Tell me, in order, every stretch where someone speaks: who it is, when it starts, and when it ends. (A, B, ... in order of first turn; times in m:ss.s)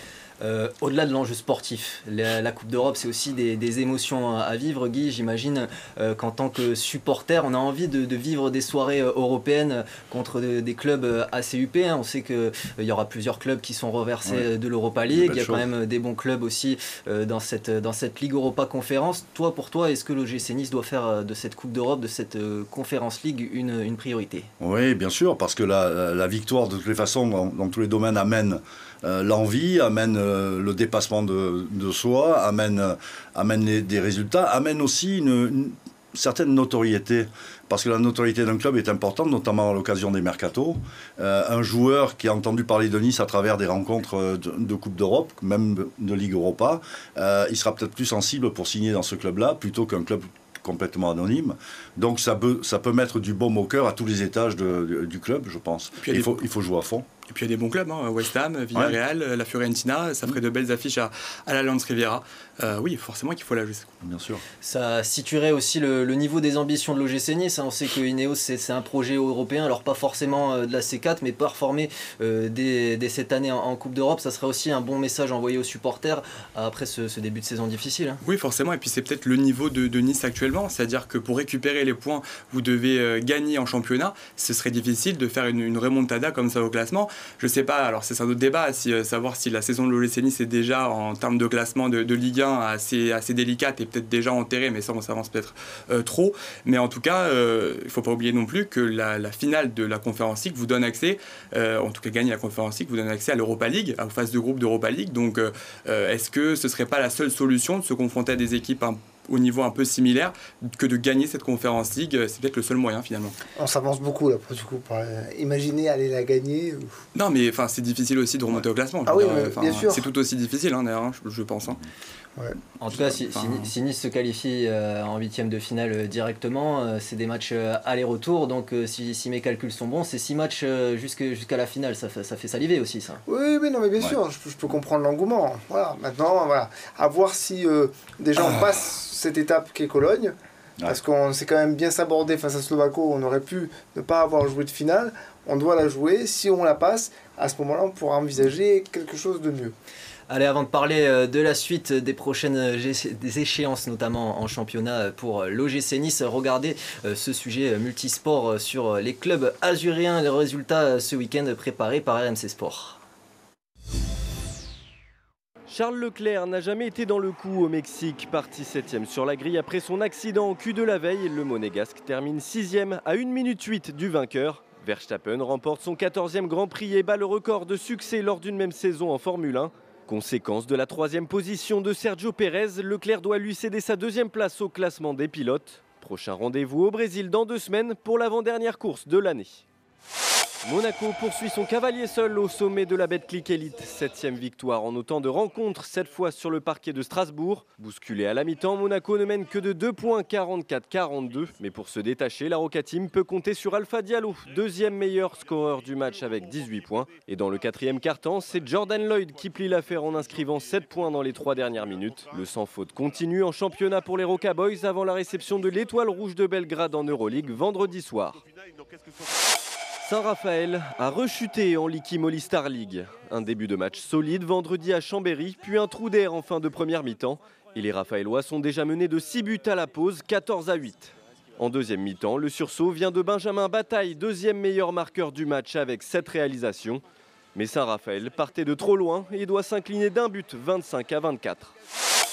0:00.4-0:24.5 A
0:15.1-0:15.6 B
0:24.6-0:57.1 B
0:56.0-0:56.4 C
0:57.3-1:03.9 C
1:04.0-1:04.4 B
1:04.6-1:18.2 A
1:18.2-1:53.4 C
1:53.6-1:56.9 D
1:57.1-2:01.8 C
1:58.5-2:00.1 D
2:02.8-2:13.2 A
2:02.9-2:03.7 C
2:13.3-2:29.7 D
2:30.3-2:43.0 A
2:45.7-3:09.6 E
3:10.6-3:38.4 E
3:40.0-3:57.0 E
3:57.5-4:01.7 E